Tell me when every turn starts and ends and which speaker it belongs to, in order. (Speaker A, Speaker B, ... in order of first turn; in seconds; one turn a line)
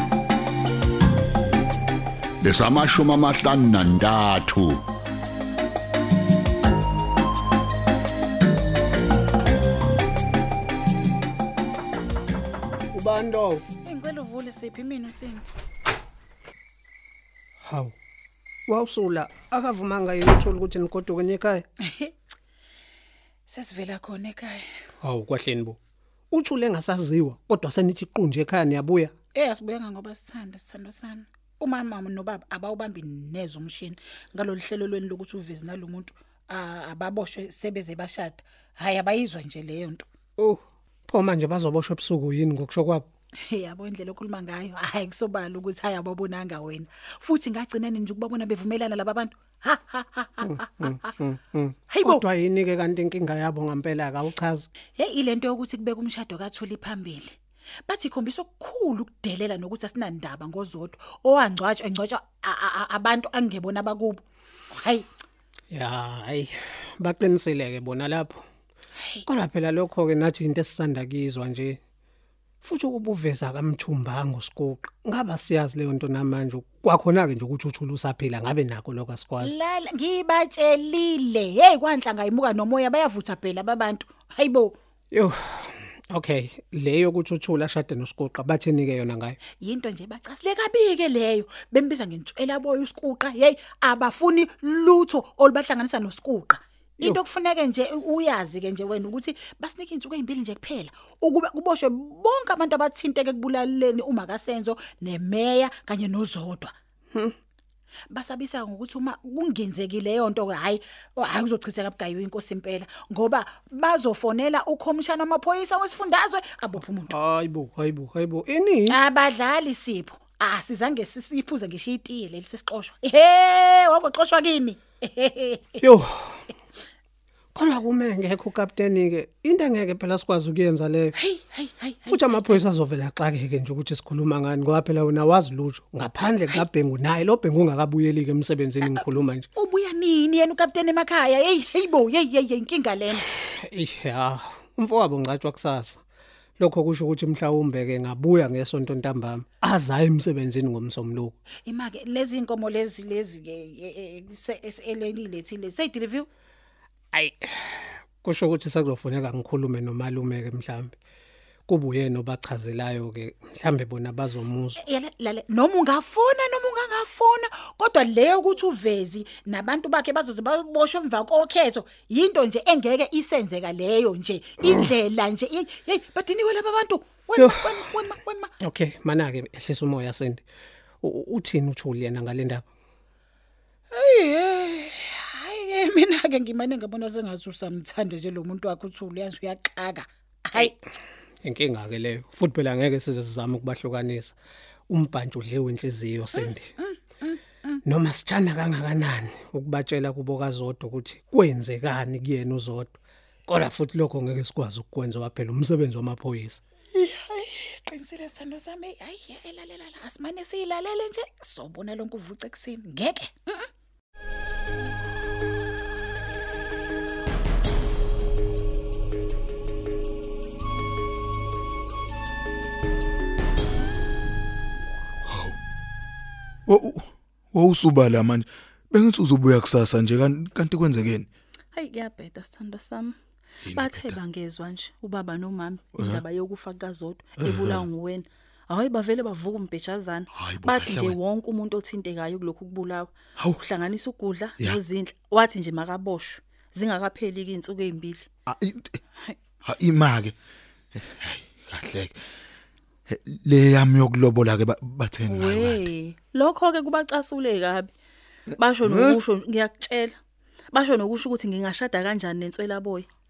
Speaker A: 2.4-4.8
Speaker B: 12.9-13.7
Speaker C: 13.8-15.5
Speaker B: 17.7-17.9
Speaker B: 18.7-21.7
Speaker C: 21.9-22.1
Speaker C: 23.5-24.6
Speaker B: 25.0-25.8
Speaker B: 26.3-29.1
Speaker C: 29.4-40.0
Speaker B: 40.4-43.1
Speaker C: 43.5-50.9
Speaker B: 50.5-54.7
Speaker C: 51.9-52.2
Speaker C: 55.0-57.4
Speaker C: 57.9-65.0
Speaker B: 65.7-68.4
Speaker C: 69.0-69.2
Speaker B: 69.3-71.8
Speaker B: 72.6-79.5
Speaker C: 79.4-84.8
Speaker B: 85.1-89.4
Speaker C: 89.6-106.7
Speaker C: 108.1-117.1
Speaker B: 117.1-119.0
Speaker C: 118.9-125.8
Speaker B: 125.8-126.5
Speaker B: 127.5-131.2
Speaker C: 131.2-132.5
Speaker B: 132.1-139.5
Speaker C: 139.6-143.2
Speaker B: 143.5-146.0
Speaker B: 146.6-151.3
Speaker C: 151.7-156.3
Speaker B: 157.1-160.9
Speaker B: 161.7-164.8
Speaker C: 164.8-178.5
Speaker B: 177.4-177.8
Speaker B: 178.6-180.4
Speaker B: 181.0-182.7
Speaker C: 183.9-190.8
Speaker B: 191.4-194.3
Speaker B: 194.9-196.8
Speaker B: 197.8-206.6
Speaker C: 206.9-213.7
Speaker D: 225.3-225.6
Speaker D: 226.7-231.3
Speaker E: 231.8-233.2
Speaker D: 233.6-234.2
Speaker E: 233.7-248.3
Speaker D: 235.9-236.2
Speaker D: 237.4-237.8
Speaker D: 240.3-241.2
Speaker D: 248.5-249.0
Speaker D: 249.6-250.3
Speaker D: 250.9-252.2
Speaker D: 253.1-255.9
Speaker E: 255.3-257.9
Speaker E: 258.6-260.2
Speaker D: 258.8-259.2
Speaker E: 260.7-263.1